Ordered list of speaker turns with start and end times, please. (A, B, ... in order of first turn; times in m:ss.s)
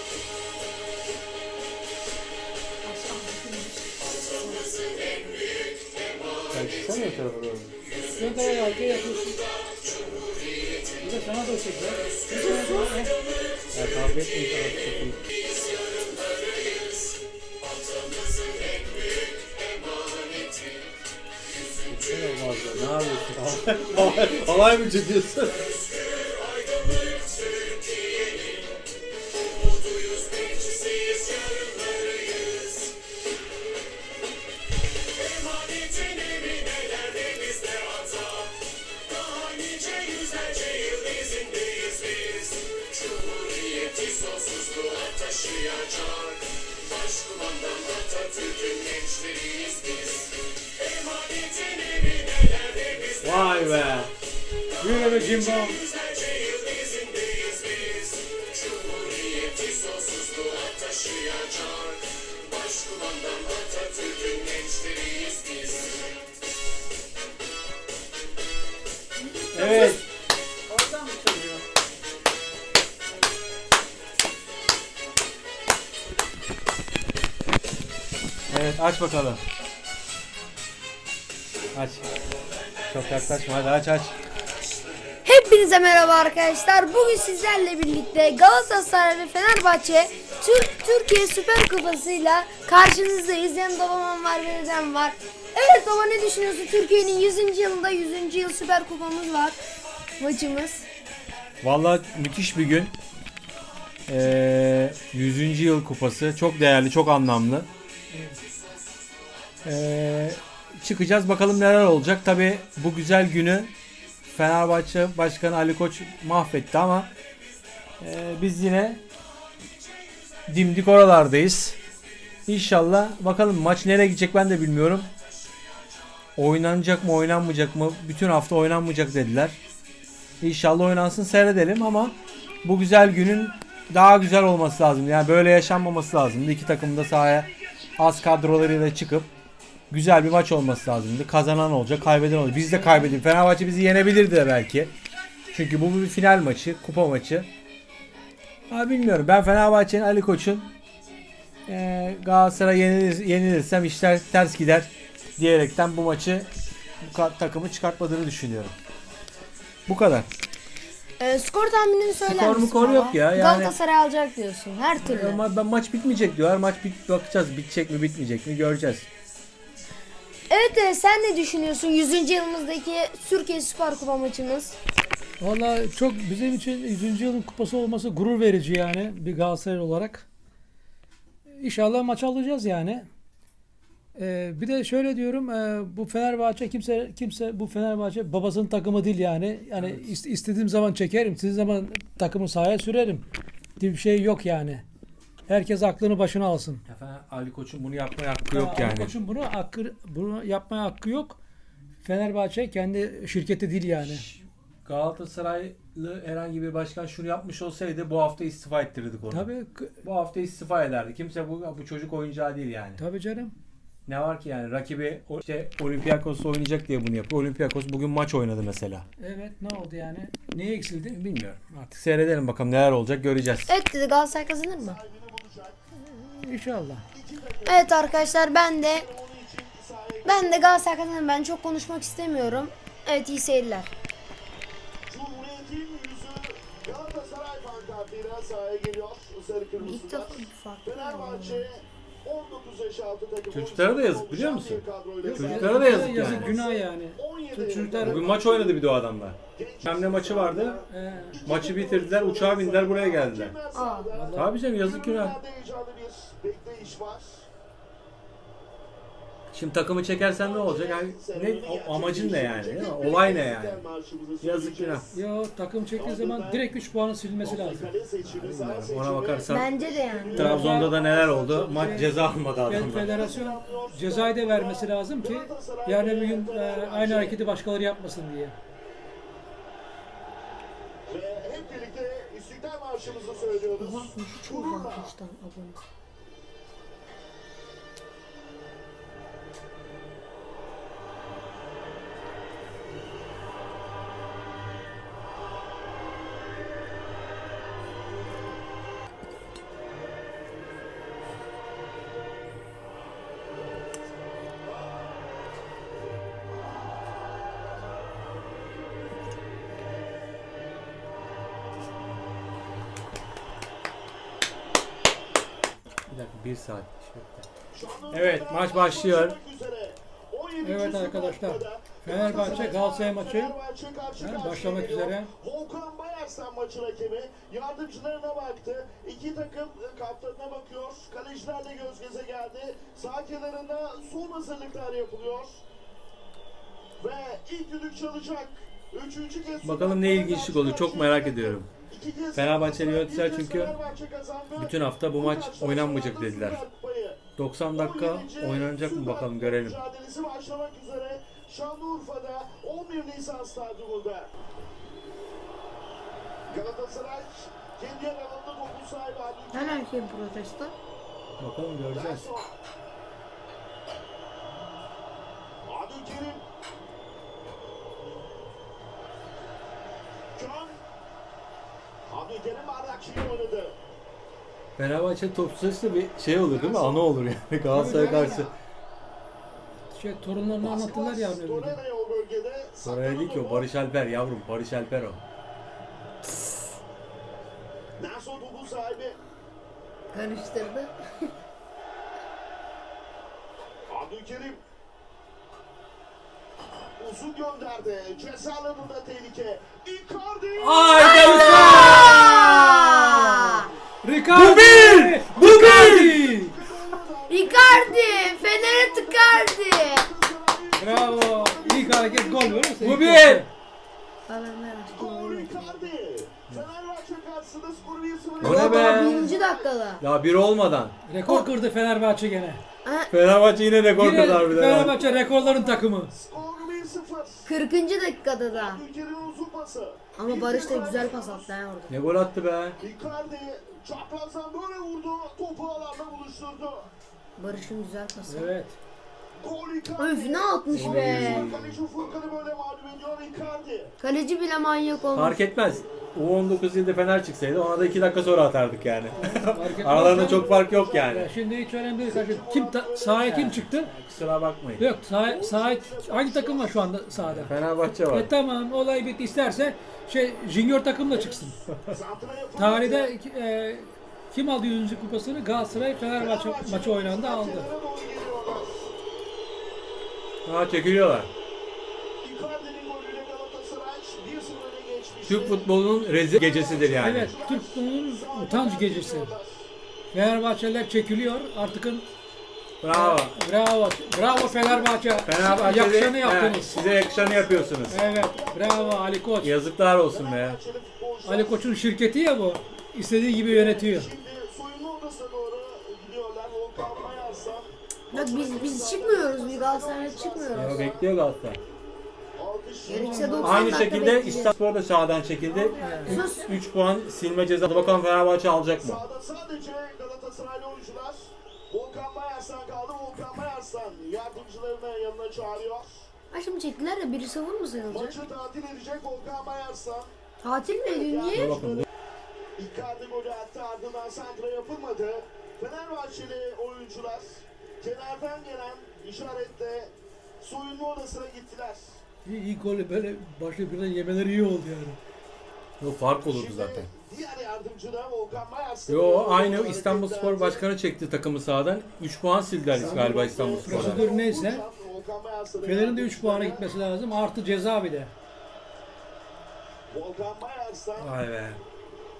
0:02.8-0:04.8 A
0:06.5-0:07.7 B
0:08.2-0:09.4 C
0:11.0-0:13.1 C
0:13.7-0:15.2 B
0:21.9-0:25.8 B
0:53.2-0:54.1 B
0:54.8-0:55.8 C
1:09.5-1:10.0 B
1:09.6-1:09.9 A
1:18.5-1:19.4 B
1:21.7-1:22.1 B
1:22.9-1:24.2 B
1:25.2-1:39.6 A
1:40.2-1:40.9 A
1:41.6-1:42.9 B
1:44.1-1:47.7 B
1:49.6-1:53.7 B
1:54.4-1:57.1 B
1:58.0-1:59.0 B
2:00.5-2:01.8 B
2:02.5-2:05.1 B
2:06.4-2:09.6 B
2:10.4-2:19.3 B
2:19.9-2:24.9 B
2:22.7-2:23.2 C
2:25.5-2:27.5 B
2:28.7-2:30.7 B
2:31.7-2:36.5 B
2:37.0-2:38.7 B
2:39.9-2:40.3 B
2:41.2-2:45.4 A
2:42.2-2:43.8 B
2:45.0-2:49.1 B
2:50.5-2:54.8 A
2:55.4-3:00.3 C
3:01.6-3:03.1 C
3:04.2-3:13.2 C
3:09.8-3:10.1 B
3:13.8-3:14.8 C
3:15.5-3:16.8 C
3:16.9-3:19.2 B
3:18.5-3:21.4 C
3:22.0-3:24.2 C
3:24.0-3:29.5 B
3:29.3-3:30.0 C
3:30.0-3:33.0 B
3:33.0-3:33.5 C
3:34.1-3:39.0 B
3:39.2-3:41.2 C
3:41.1-3:43.7 B
3:43.7-3:45.0 A
3:44.1-3:45.8 D
3:46.1-3:47.0 C
3:47.1-3:50.9 D
3:47.6-3:49.1 A
3:50.2-3:53.9 A
3:55.1-4:08.9 D
3:59.8-4:01.7 A
4:03.5-4:06.6 B
4:05.2-4:08.2 C
4:08.0-4:10.8 B
4:09.5-4:17.5 D
4:10.8-4:11.4 C
4:11.4-4:13.6 B
4:13.7-4:14.1 A
4:14.2-4:14.6 C
4:14.3-4:15.4 B
4:19.5-4:23.8 B
4:20.2-4:25.2 D
4:24.4-4:25.0 B
4:25.1-4:27.9 C
4:26.0-4:26.7 D
4:27.4-4:37.4 D
4:28.2-4:29.7 B
4:29.5-4:30.5 A
4:30.3-4:33.2 B
4:30.4-4:31.0 C
4:31.7-4:32.2 C
4:32.7-4:38.6 C
4:41.1-4:45.1 D
4:43.8-4:45.8 A
5:16.1-5:17.4 B
5:17.7-5:35.6 D
5:18.1-5:19.4 B
5:20.6-5:23.6 C
5:24.2-5:25.3 C
5:37.0-5:54.3 D
5:39.6-5:41.7 B
5:42.4-5:43.8 B
5:44.6-5:46.6 B
5:47.4-5:49.8 B
5:56.5-5:59.9 D
5:59.5-6:00.7 A
6:01.4-6:02.2 B
6:01.9-6:02.5 D
6:05.7-6:06.4 D
6:10.4-6:10.8 D
6:12.1-6:13.8 D
6:14.8-6:18.5 B
6:16.4-6:17.1 D
6:17.7-6:18.5 C
6:17.9-6:18.5 D
6:19.9-6:21.8 C
6:20.5-6:23.7 D
6:22.8-6:25.2 B
6:28.0-6:29.2 D
6:30.1-6:30.9 A
6:33.9-6:34.6 D
6:37.0-6:42.5 D
6:40.6-6:46.6 C
6:41.0-6:43.7 A
6:44.3-6:46.2 B
6:45.6-6:52.8 D
6:47.3-6:50.1 A
6:50.8-6:53.5 C
6:52.8-6:53.4 B
6:54.3-6:55.7 A
6:54.9-6:59.7 D
6:58.4-6:59.2 B
6:58.4-7:00.0 A
6:58.5-6:59.2 C
7:00.0-7:01.0 B
7:01.1-7:02.6 C
7:02.8-7:03.1 A
7:03.1-7:05.0 B
7:04.0-7:06.1 C
7:04.7-7:07.5 D
7:07.5-7:08.8 A
7:08.5-7:11.5 D
7:10.2-7:11.9 A
7:11.9-7:12.8 B
7:12.8-7:16.9 D
7:17.4-7:18.5 A
7:18.3-7:18.8 C
7:19.4-7:23.9 D
7:20.0-7:21.5 A
7:20.7-7:21.8 B
7:24.0-7:25.4 A
7:25.1-7:31.3 B
7:29.2-7:33.9 C
7:30.0-7:31.1 D
7:32.0-7:33.4 D
7:33.2-7:34.9 B
7:34.8-7:37.5 C
7:35.2-7:37.0 D
7:37.2-7:38.3 B
7:38.1-7:41.6 C
7:41.1-7:43.1 D
7:42.6-7:47.7 C
7:46.2-7:48.9 D
7:50.4-7:51.3 B
7:52.2-7:55.7 D
7:55.2-7:57.3 B
7:56.3-7:59.7 D
7:57.0-7:59.3 C
8:00.1-8:02.1 C
8:02.8-8:03.4 B
8:02.9-8:06.8 C
8:04.2-8:05.2 D
8:05.2-8:08.0 B
8:06.6-8:09.1 D
8:07.9-8:09.6 C
8:09.4-8:10.6 B
8:10.1-8:11.7 D
8:11.2-8:14.1 C
8:13.5-8:21.1 D
8:18.1-8:20.8 A
8:20.5-8:21.6 B
8:22.4-8:24.0 D
8:22.9-8:24.5 A
8:22.9-8:23.6 C
8:23.4-8:29.0 B
8:25.6-8:26.5 A
8:25.8-8:26.2 C
8:27.6-8:28.0 D
8:28.8-8:36.1 D
8:36.3-8:38.2 A
8:37.9-8:40.1 D
8:40.4-8:41.6 A
8:40.8-8:41.9 D
8:41.3-8:41.9 B
8:42.6-8:52.0 D
8:52.2-8:55.0 C
8:55.8-8:56.9 B
8:56.2-9:00.7 D
8:58.9-9:04.1 B
9:02.7-9:06.6 D
9:02.8-9:04.6 C
9:05.6-9:08.1 C
9:09.9-9:11.1 D
9:11.0-9:11.6 B